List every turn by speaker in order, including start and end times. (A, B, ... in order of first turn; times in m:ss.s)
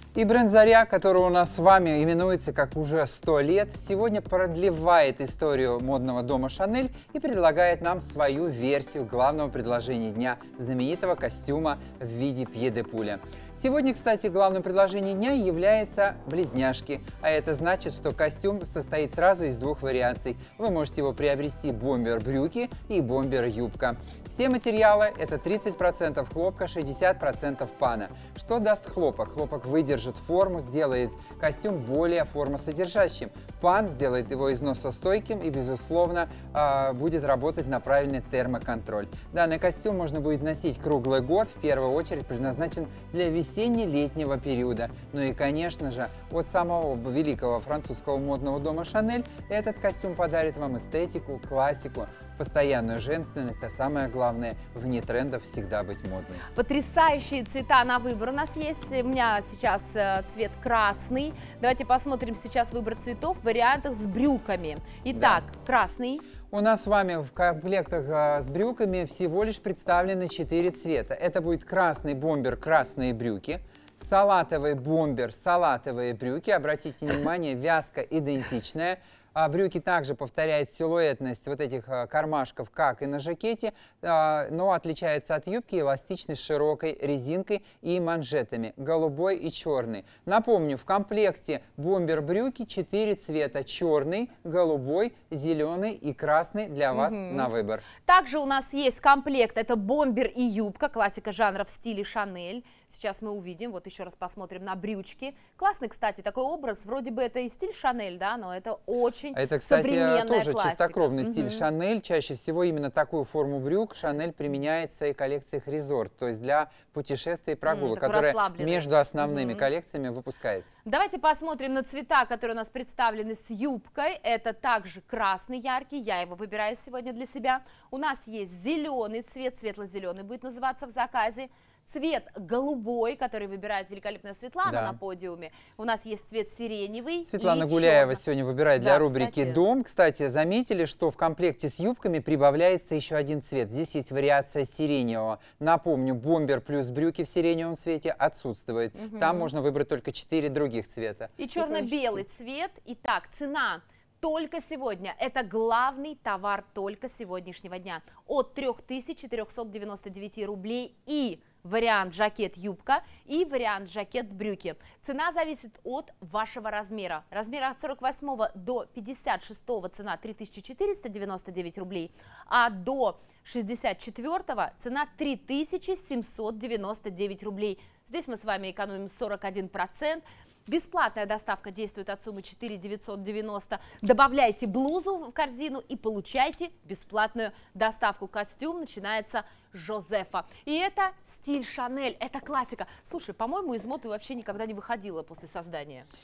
0:00.1-0:56.4 A
0:56.5-1:06.2 B
1:05.1-1:05.4 A
1:06.5-1:37.8 A
1:36.9-1:51.6 B
1:49.3-2:00.7 A
1:57.6-1:59.7 B
2:00.8-2:18.2 B
2:14.6-2:15.0 A
2:17.2-2:32.2 A
2:18.8-2:19.6 B
2:28.9-2:29.5 B
2:31.4-3:16.0 B